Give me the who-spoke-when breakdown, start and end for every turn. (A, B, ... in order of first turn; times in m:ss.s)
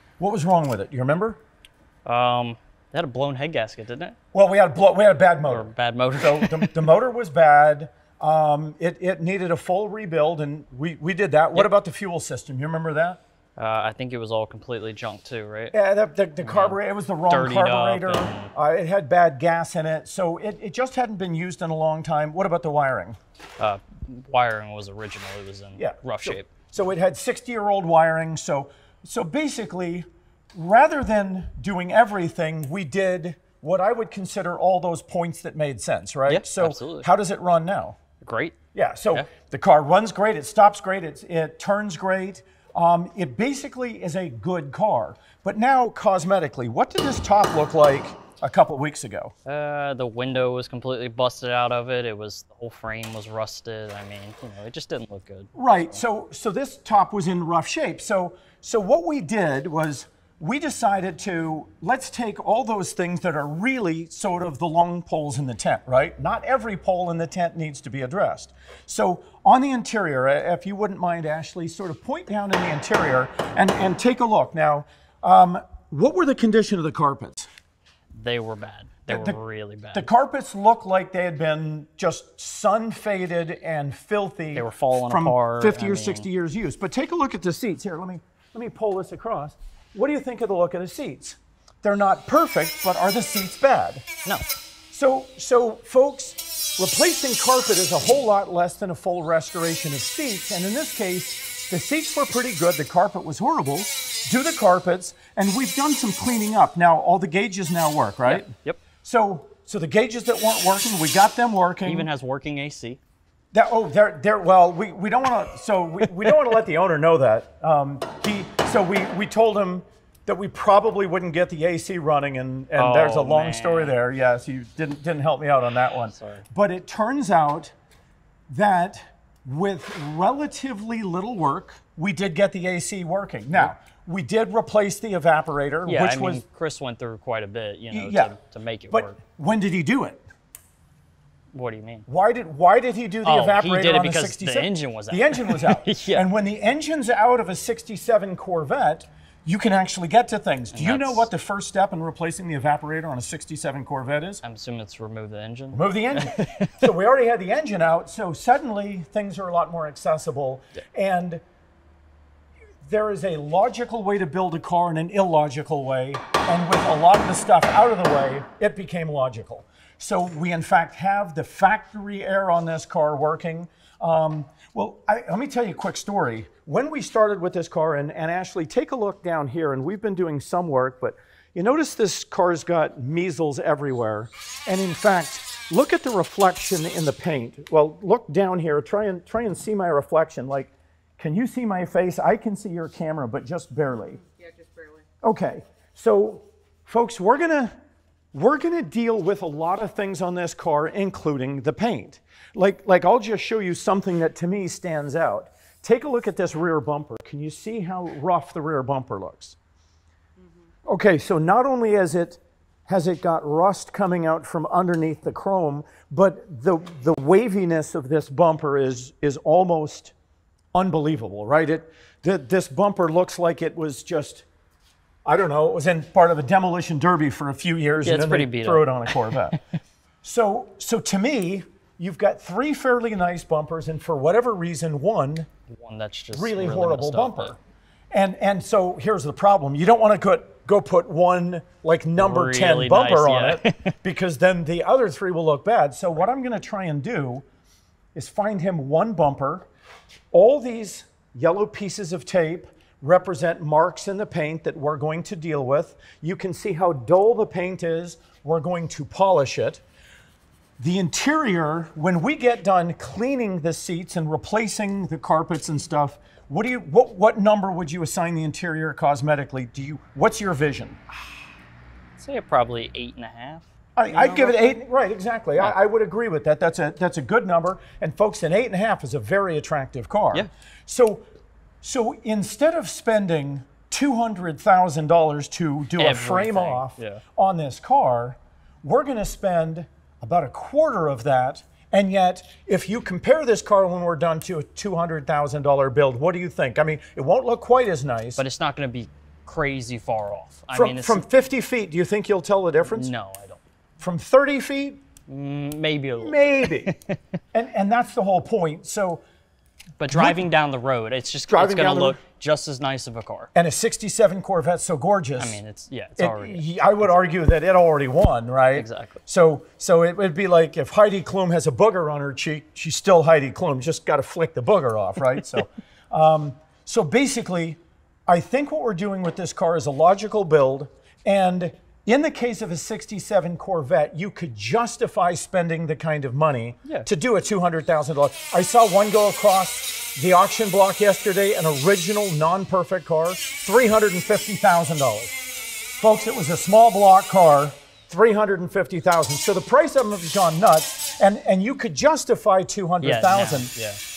0:00.2-0:01.4 A
0:02.0-0:04.2 B
0:04.3-0:13.2 A
0:05.4-0:06.9 B
0:13.6-0:15.7 B
0:15.7-0:23.2 A
0:16.4-0:18.5 B
0:23.6-0:26.5 B
0:25.8-0:38.0 A
0:36.3-0:37.1 B
0:38.2-0:38.6 B
0:38.7-0:49.3 A
0:49.4-0:55.5 B
0:55.5-1:17.5 A
1:18.1-1:20.1 B
1:19.1-1:19.4 A
1:19.9-1:34.1 A
1:24.5-1:26.3 B
1:34.9-1:52.1 A
1:48.2-1:48.8 B
1:51.8-1:53.0 B
1:53.5-2:07.7 A
2:02.7-2:04.0 B
2:05.9-2:06.4 B
2:08.5-2:16.4 A
2:15.8-2:19.2 B
2:17.9-2:18.3 A
2:18.9-2:20.2 A
2:21.5-2:22.0 B
2:22.1-2:34.4 A
2:23.2-2:26.2 B
2:30.7-2:31.3 B
2:34.4-2:36.9 B
2:35.7-2:41.4 A
2:42.8-3:14.2 A
3:15.2-3:17.7 A
3:18.3-3:29.6 A
3:30.9-3:40.1 A
3:40.7-3:44.4 A
3:45.2-3:49.6 A
3:48.0-3:49.4 B
3:50.2-3:55.5 A
3:55.7-3:57.5 B
3:56.3-3:57.6 A
3:58.1-4:07.4 A
4:02.2-4:03.9 B
4:08.1-4:09.7 A
4:10.3-4:19.8 A
4:20.8-4:31.0 A
4:32.2-4:34.7 B
4:34.0-4:41.2 A
4:41.8-4:58.4 A
4:46.0-4:47.2 B
4:58.4-5:01.2 B
5:00.7-5:03.1 A
5:02.9-5:03.6 B
5:04.0-5:05.0 A
5:05.3-5:07.2 B
5:06.2-5:06.9 A
5:07.5-5:09.2 A
5:10.0-5:13.5 B
5:10.1-5:10.4 A
5:11.5-5:12.2 A
5:13.5-5:15.6 A
5:15.4-5:16.8 B
5:16.2-5:45.4 A
5:18.7-5:19.2 B
5:46.0-5:53.7 A
5:53.0-5:54.0 B